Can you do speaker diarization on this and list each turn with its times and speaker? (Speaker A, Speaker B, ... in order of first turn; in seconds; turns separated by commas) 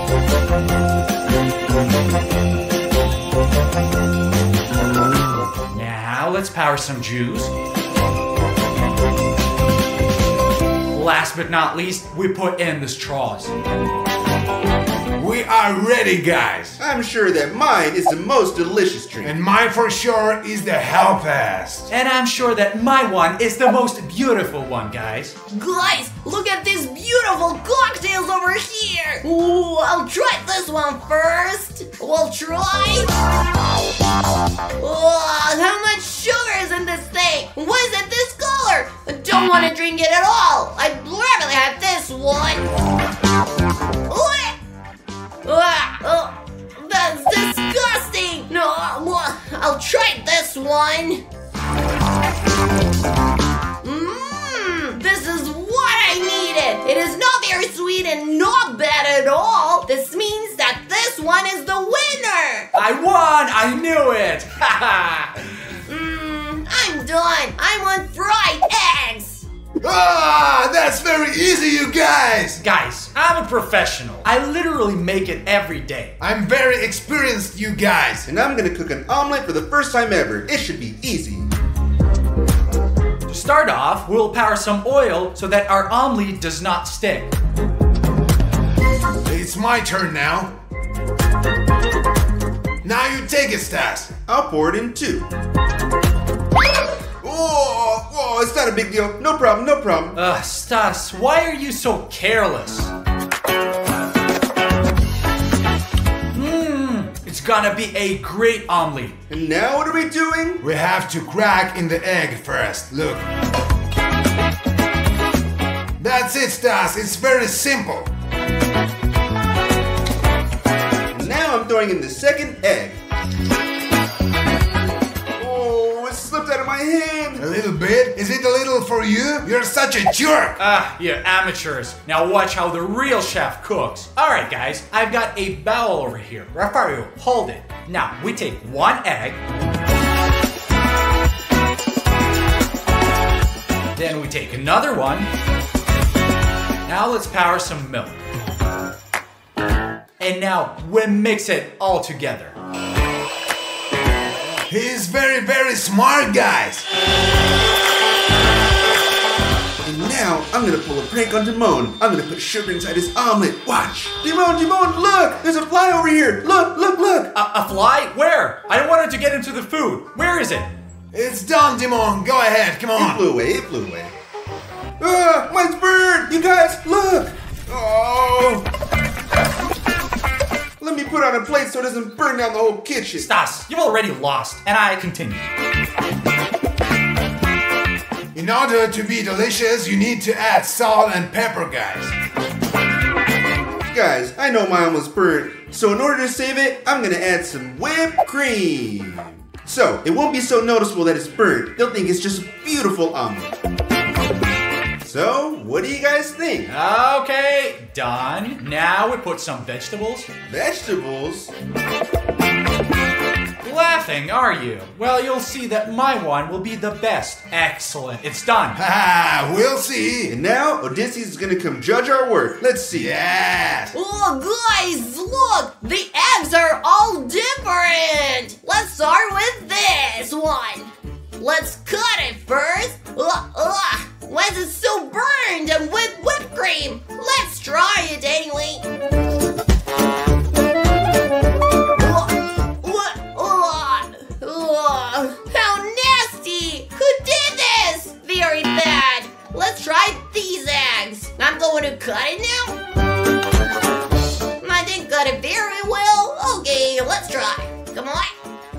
Speaker A: 5.7-7.5, Speaker A: 10.9-13.5, Speaker B: 15.2-16.8, Speaker C: 16.8-19.4, Speaker B: 19.2-21.9, Speaker A: 21.9-25.4, Speaker D: 25.5-33.1, Speaker D: 34.8-42.6, Speaker D: 44.1-44.6, Speaker D: 45.4-51.2, Speaker D: 53.8-62.7, Speaker A: 62.8-65.3, Speaker D: 65.9-69.5, Speaker B: 69.8-72.6, Speaker A: 72.6-76.1, Speaker B: 76.2-78.3, Speaker C: 78.3-81.5, Speaker A: 83.3-87.3, Speaker B: 89.2-90.5, Speaker B: 92.8-94.1, Speaker C: 94.3-95.3, Speaker C: 97.2-100.2, Speaker A: 100.1-102.9, Speaker A: 106.3-109.2, Speaker C: 109.3-110.6, Speaker B: 110.6-113.2, Speaker B: 116.0-118.1, Speaker C: 121.1-123.0, Speaker C: 125.4-127.4, Speaker B: 127.4-130.6, Speaker A: 130.6-139.4, Speaker A: 143.9-145.3, Speaker A: 146.9-148.2, Speaker A: 150.2-152.6, Speaker B: 154.7-156.8, Speaker C: 159.8-167.3, Speaker A: 167.3-170.7, Speaker B: 171.1-173.2, Speaker C: 172.9-174.1, Speaker C: 175.0-178.7, Speaker C: 180.8-183.3, Speaker A: 183.2-185.5, Speaker B: 188.3-192.1, Speaker C: 193.9-203.5, Speaker C: 205.0-206.7, Speaker A: 206.7-210.3, Speaker C: 210.5-211.5, Speaker A: 213.6-218.8, Speaker B: 218.8-220.3, Speaker C: 220.3-223.1, Speaker B: 222.9-223.9, Speaker D: 223.9-238.8, Speaker D: 241.9-252.8, Speaker D: 254.6-258.3